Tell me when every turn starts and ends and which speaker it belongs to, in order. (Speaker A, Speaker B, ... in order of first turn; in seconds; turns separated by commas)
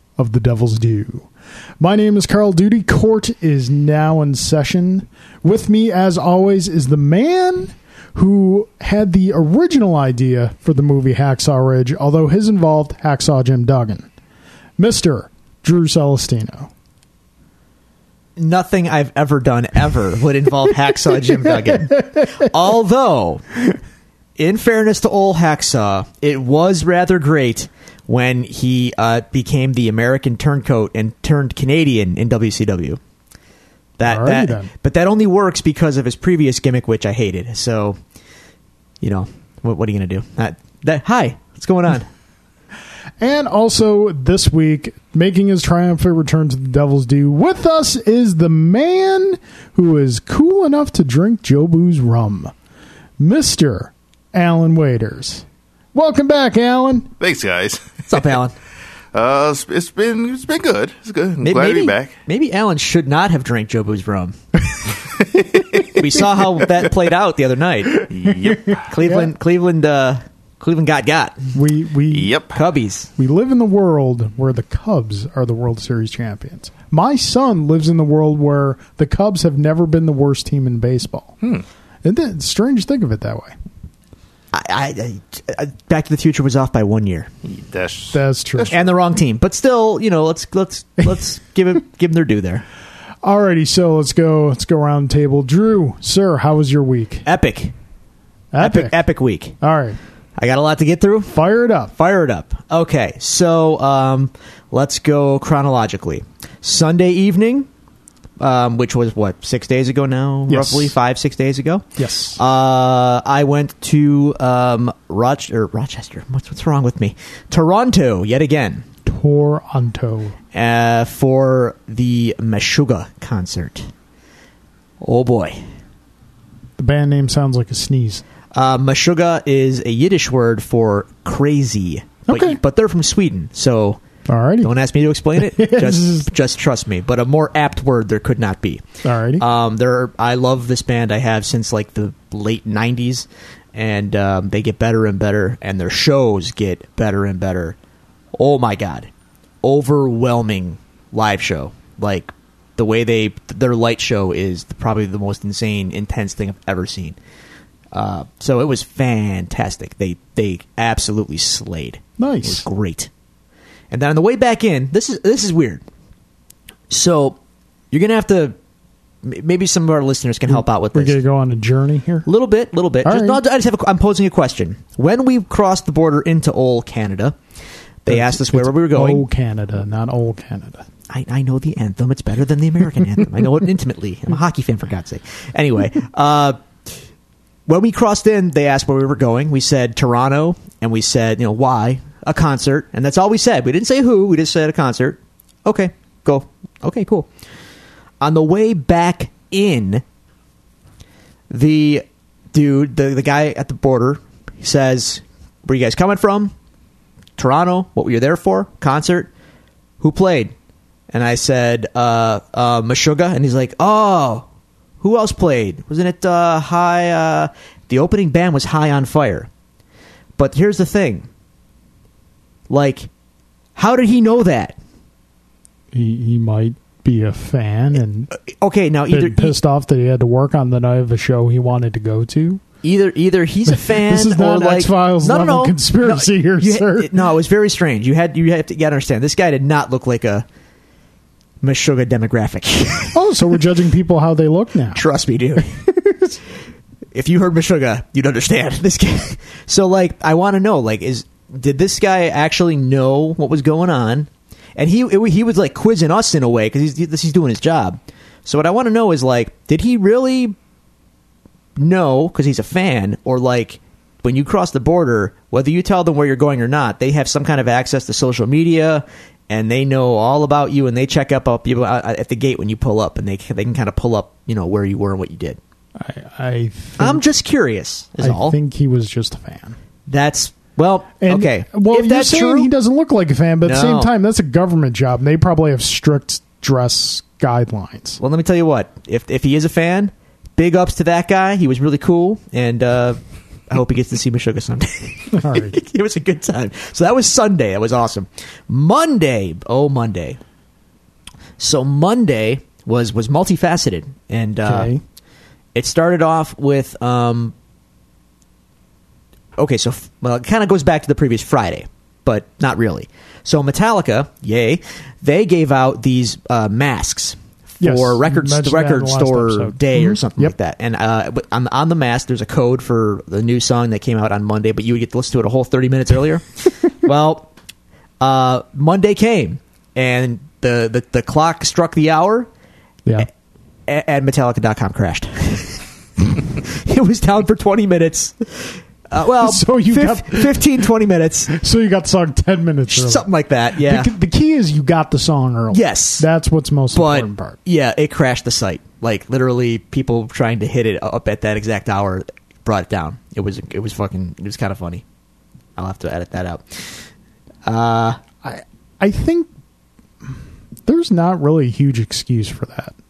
Speaker A: 0.2-1.3, Speaker A: 1.8-14.1, Speaker A: 14.8-16.7, Speaker B: 18.4-23.5, Speaker B: 24.4-33.0, Speaker B: 34.0-38.0, Speaker A: 34.0-34.7, Speaker B: 39.0-42.1, Speaker A: 43.2-52.5, Speaker A: 53.2-57.1, Speaker C: 57.2-58.3, Speaker B: 58.1-58.5, Speaker C: 59.1-62.1, Speaker B: 61.4-64.4, Speaker C: 65.2-65.9, Speaker B: 65.8-71.5, Speaker C: 68.1-68.9, Speaker A: 69.0-69.3, Speaker A: 71.5-72.3, Speaker C: 72.1-72.6, Speaker B: 72.5-73.1, Speaker A: 73.2-81.3, Speaker A: 82.0-83.5, Speaker B: 84.5-87.3, Speaker C: 87.5-88.8, Speaker A: 88.1-88.7, Speaker B: 88.7-92.6, Speaker A: 93.2-97.2, Speaker B: 97.2-97.7, Speaker A: 98.5-99.0, Speaker B: 98.6-99.6, Speaker A: 99.6-100.0, Speaker B: 100.4-101.4, Speaker A: 101.3-101.9, Speaker B: 102.0-107.7, Speaker B: 108.4-118.9, Speaker A: 110.5-110.9, Speaker A: 112.0-112.4, Speaker A: 119.0-120.4, Speaker B: 120.5-123.9, Speaker B: 125.0-125.6, Speaker A: 126.8-128.2, Speaker B: 128.5-134.0, Speaker A: 132.3-132.6, Speaker A: 134.3-134.7, Speaker B: 134.6-138.8, Speaker A: 135.4-136.3, Speaker A: 139.0-139.4, Speaker B: 139.4-147.8, Speaker B: 148.4-149.1, Speaker B: 149.6-157.2, Speaker B: 157.9-163.1, Speaker A: 162.2-162.7, Speaker B: 163.9-165.8, Speaker B: 166.9-167.4, Speaker B: 167.9-168.6, Speaker B: 169.2-171.2, Speaker A: 170.5-172.3, Speaker B: 172.3-177.4, Speaker A: 173.0-173.4, Speaker B: 178.1-179.2, Speaker A: 178.1-180.9, Speaker B: 181.1-186.6, Speaker B: 187.7-197.3, Speaker B: 198.2-200.0, Speaker B: 201.5-206.5, Speaker B: 207.4-209.3, Speaker B: 210.0-210.5, Speaker B: 211.1-214.5, Speaker B: 215.0-219.5, Speaker B: 220.4-221.3, Speaker B: 222.7-223.1, Speaker B: 223.8-224.8, Speaker A: 225.9-228.3, Speaker B: 228.3-229.6, Speaker A: 229.1-232.6, Speaker B: 232.8-240.4, Speaker A: 233.7-237.1, Speaker B: 241.6-243.2, Speaker A: 243.1-245.0, Speaker B: 244.9-245.7, Speaker A: 245.6-246.4, Speaker B: 247.1-260.6, Speaker B: 261.8-275.6, Speaker A: 276.0-277.2, Speaker B: 277.0-278.6, Speaker A: 278.2-279.8, Speaker B: 280.1-282.7, Speaker A: 281.2-288.2, Speaker B: 283.6-284.1, Speaker B: 288.2-293.2, Speaker B: 293.7-300.4, Speaker A: 295.3-295.8, Speaker B: 301.6-304.9, Speaker A: 304.6-305.0, Speaker B: 305.8-307.5, Speaker B: 309.6-327.5, Speaker A: 317.8-320.5, Speaker B: 328.2-332.5, Speaker B: 333.9-341.6, Speaker A: 339.2-340.9, Speaker A: 341.5-347.6, Speaker B: 342.9-344.1, Speaker B: 345.7-346.3, Speaker B: 346.9-355.0, Speaker B: 355.8-357.1, Speaker B: 357.7-358.2, Speaker A: 358.4-359.5, Speaker A: 360.9-362.9